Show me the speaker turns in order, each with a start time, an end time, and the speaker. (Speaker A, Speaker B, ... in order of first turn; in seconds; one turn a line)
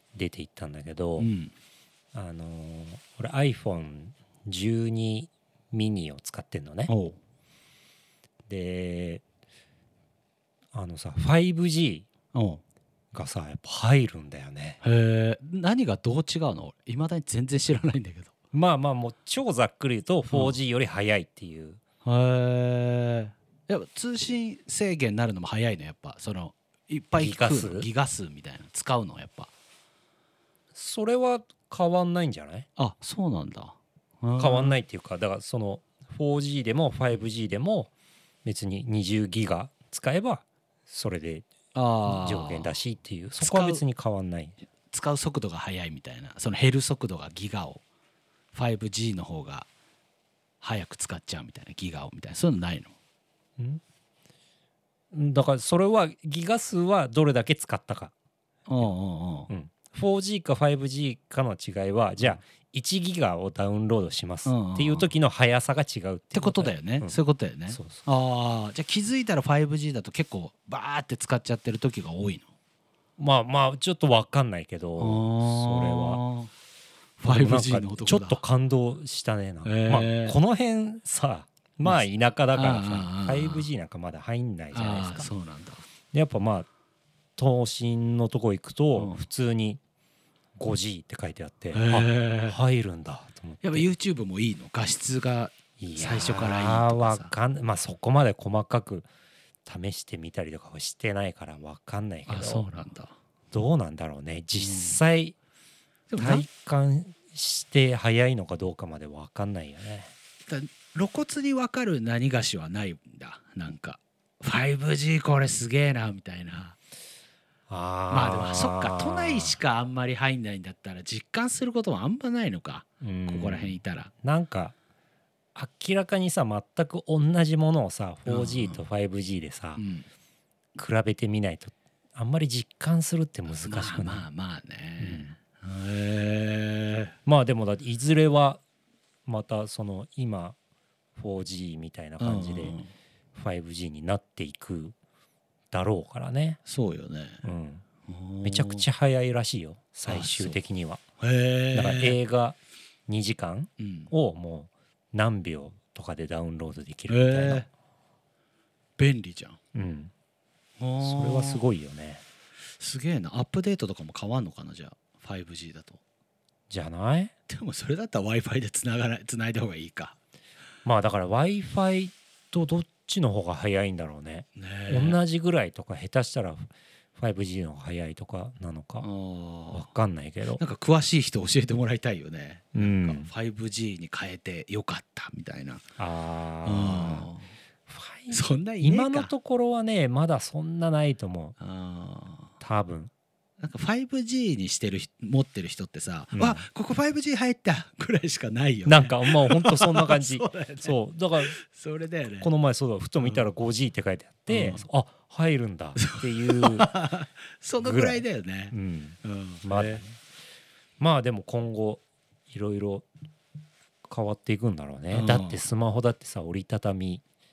Speaker A: 0.1-1.3
Speaker B: 1.2-1.5
Speaker A: 2.1-6.9
Speaker B: 6.9-7.2
Speaker A: 8.5-9.2
Speaker A: 10.7-12.1
Speaker B: 12.3-12.6
Speaker A: 13.1-14.8
Speaker B: 14.8-18.3
Speaker A: 18.5-21.8
Speaker B: 20.3-20.6
Speaker B: 22.0-29.5
Speaker A: 27.1-27.9
Speaker A: 30.7-32.7
Speaker B: 32.8-34.8
Speaker A: 34.4-37.9
Speaker A: 38.5-41.5
Speaker B: 41.7-42.7
Speaker A: 42.0-44.5
Speaker B: 43.4-43.8
Speaker B: 44.9-47.8
Speaker B: 48.5-49.7
Speaker B: 50.6-52.9
Speaker A: 55.1-58.1
Speaker B: 58.7-59.5
Speaker A: 59.5-67.2
Speaker B: 64.5-65.1
Speaker B: 66.3-72.5
Speaker A: 67.7-68.0
Speaker A: 73.2-76.2
Speaker B: 75.0-76.5
Speaker B: 77.2-78.4
Speaker A: 77.2-85.3
Speaker B: 79.6-80.4
Speaker B: 81.8-83.7
Speaker B: 84.7-85.8
Speaker A: 86.1-86.7
Speaker A: 87.4-89.8
Speaker B: 88.9-89.2
Speaker A: 90.6-93.9
Speaker B: 91.7-92.5
Speaker B: 93.6-97.3
Speaker A: 95.8-99.1
Speaker A: 99.6-102.7
Speaker B: 102.3-103.1
Speaker A: 103.5-105.3
Speaker B: 104.6-105.0
Speaker B: 106.1-106.5
Speaker A: 106.2-110.1
Speaker B: 110.5-116.8
Speaker A: 117.7-119.6
Speaker B: 118.1-124.1
Speaker A: 123.0-124.8
Speaker A: 125.5-129.8
Speaker B: 128.2-128.8
Speaker B: 129.8-130.1
Speaker A: 130.8-134.2
Speaker B: 133.6-137.1
Speaker A: 135.0-135.3
Speaker A: 137.2-138.6
Speaker A: 139.2-140.6
Speaker A: 141.2-142.8
Speaker B: 142.2-142.9
Speaker A: 143.3-144.9
Speaker A: 145.7-146.6
Speaker B: 146.7-147.4
Speaker A: 147.4-147.8
Speaker B: 148.1-148.8
Speaker A: 148.4-151.0
Speaker B: 150.1-150.6
Speaker B: 151.2-152.2
Speaker A: 151.7-157.7
Speaker B: 153.8-154.1
Speaker B: 157.1-157.7
Speaker B: 159.0-159.6
Speaker A: 159.7-160.1
Speaker B: 160.8-161.6
Speaker A: 161.0-162.2
Speaker B: 162.8-166.0
Speaker A: 166.7-167.3
Speaker B: 167.5-170.2
Speaker A: 170.8-179.1
Speaker B: 174.6-175.2
Speaker B: 179.0-179.9
Speaker A: 179.7-180.6
Speaker B: 180.6-185.8
Speaker A: 182.8-183.3
Speaker A: 186.0-187.3
Speaker B: 186.6-187.5
Speaker A: 187.9-191.6
Speaker B: 188.3-189.3
Speaker B: 191.6-192.5
Speaker A: 192.6-193.1
Speaker B: 193.6-202.5
Speaker A: 196.3-196.6
Speaker A: 198.8-201.6
Speaker A: 202.4-206.9
Speaker B: 203.2-203.5
Speaker B: 204.5-204.8
Speaker B: 206.0-210.0
Speaker A: 207.8-210.2
Speaker A: 211.0-213.1
Speaker A: 214.1-217.2
Speaker B: 215.1-215.6